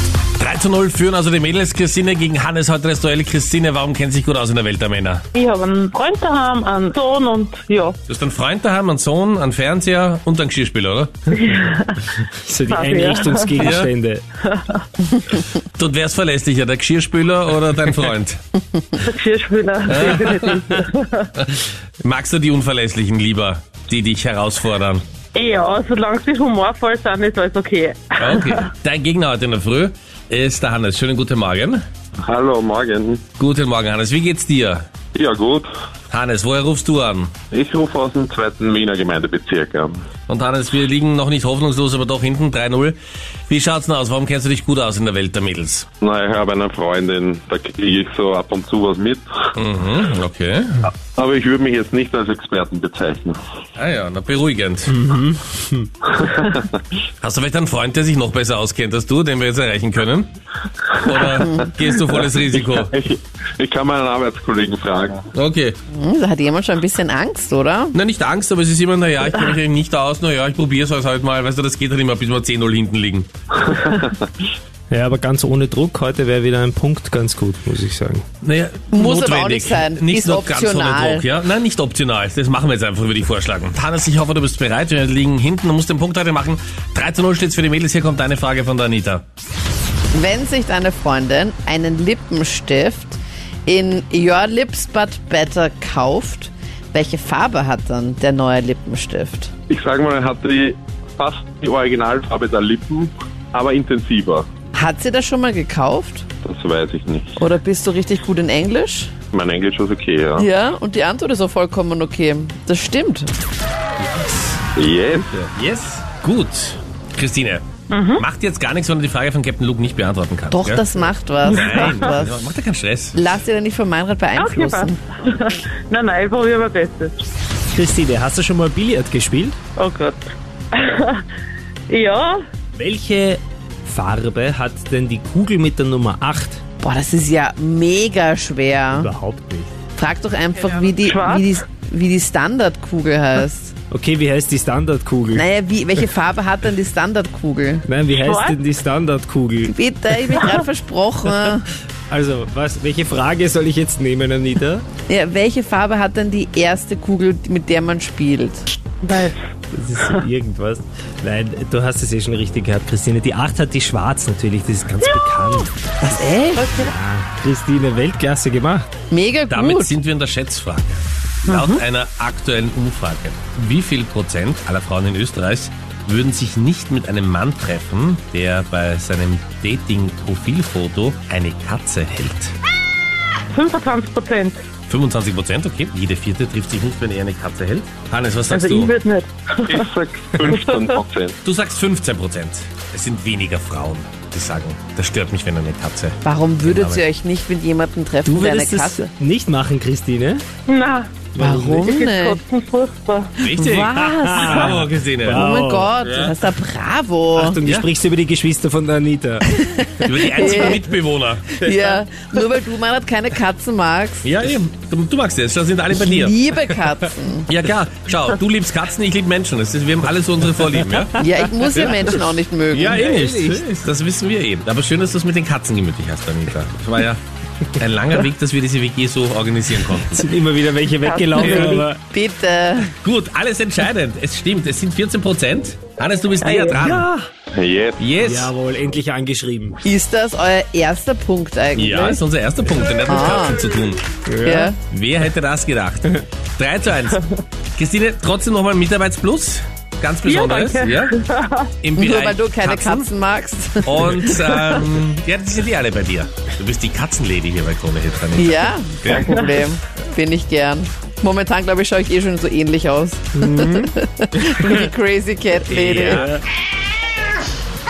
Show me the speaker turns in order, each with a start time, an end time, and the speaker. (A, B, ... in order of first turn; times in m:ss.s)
0:00.4-0:05.2 A
0:05.3-0:08.0 B
0:08.1-0:11.1 A
0:11.4-0:12.0 B
0:12.4-0:14.2 C
0:12.7-0:13.6 B
0:13.6-0:13.9 A
0:14.5-0:14.8 B
0:15.3-0:18.4 A
0:19.0-0:21.3 B
0:19.8-0:20.7 A
0:21.4-0:25.0 A
0:25.3-0:28.5 B
0:28.2-0:31.8 A
0:32.2-0:33.2 D
0:33.4-0:34.8 A
0:35.1-0:35.7 D
0:36.1-0:37.3 A
0:37.5-0:40.0 D
0:40.3-0:43.0 A
0:43.5-0:45.9 A
0:46.0-0:49.2 D
0:49.5-0:50.9 A
0:51.1-0:53.4 D
0:53.8-0:55.0 A
0:54.9-0:55.9 C
0:56.2-0:56.8 D
0:57.2-1:00.3 A
1:00.9-1:02.9 A
1:01.4-1:01.7 E
1:02.2-1:05.3 D
1:05.3-1:05.8 A
1:05.9-1:08.0 E
1:07.9-1:13.7 A
1:14.9-1:18.2 C
1:18.4-1:29.2 A
1:18.9-1:21.3 E
1:30.1-1:39.5 E
1:39.7-1:44.5 D
1:44.7-1:46.3 E
1:46.4-1:47.4 D
1:47.4-1:49.1 E
1:49.3-1:50.5 D
1:50.4-1:53.3 E
1:54.8-1:55.4 D
1:55.3-1:57.6 A
1:57.9-1:58.2 B
1:58.2-2:03.3 A
2:00.5-2:02.5 E
2:03.1-2:05.0 E
2:04.3-2:07.2 B
2:07.7-2:09.6 C
2:09.8-2:11.2 B
2:11.9-2:12.4 B
2:12.8-2:16.6 C
2:16.8-2:19.1 E
2:18.9-2:19.7 C
2:20.0-2:23.7 E
2:20.6-2:21.6 B
2:23.9-2:25.4 C
2:25.3-2:27.8 E
2:27.8-2:29.7 C
2:28.1-2:28.6 B
2:29.6-2:31.6 E
2:32.1-2:34.8 C
2:35.1-2:38.6 E
2:39.0-2:39.4 B
2:39.7-2:48.9 C
2:46.0-2:46.7 E
2:46.6-2:46.9 B
2:49.1-2:49.9 E
2:49.5-3:02.5 A
2:51.5-2:51.8 B
3:03.5-3:04.6 B
3:04.9-3:08.9 A
3:08.5-3:09.9 B
3:09.7-3:11.4 D
3:10.5-3:10.9 B
3:11.4-3:17.0 A
3:16.2-3:19.0 E
3:18.2-3:20.4 C
3:20.7-3:21.3 B
3:21.3-3:21.9 C
3:21.4-3:22.4 E
3:21.8-3:23.4 B
3:23.4-3:25.5 A
3:23.5-3:24.8 E
3:23.9-3:25.9 C
3:25.3-3:27.6 E
3:26.0-3:26.3 A
3:27.4-3:29.5 C
3:29.6-3:30.8 E
3:30.0-3:31.5 A
3:31.6-3:34.3 E
3:31.6-3:31.9 C
3:34.2-3:36.4 A
3:35.9-3:37.5 E
3:37.5-3:42.2 A
3:41.2-3:43.0 E
3:42.7-3:47.2 A
3:42.7-3:43.6 C
3:47.7-3:50.3 A
3:50.0-3:52.0 C
3:51.0-3:51.9 B
3:51.4-3:51.7 A
3:52.0-3:52.9 E
3:53.0-3:57.1 A
3:56.4-3:56.7 B
3:56.7-3:57.3 C
3:57.5-3:58.0 D
3:58.0-3:58.5 A
3:58.2-3:59.8 C
3:59.8-4:02.2 E
4:01.7-4:04.0 A
4:03.1-4:03.6 E
4:04.2-4:04.7 C
4:04.4-4:04.8 E
4:04.9-4:11.1 A
4:10.2-4:11.7 B
4:11.8-4:13.1 A
4:11.9-4:14.6 E
4:13.8-4:19.4 A
4:18.3-4:26.3 E
4:23.4-4:23.9 C
4:25.7-4:26.4 A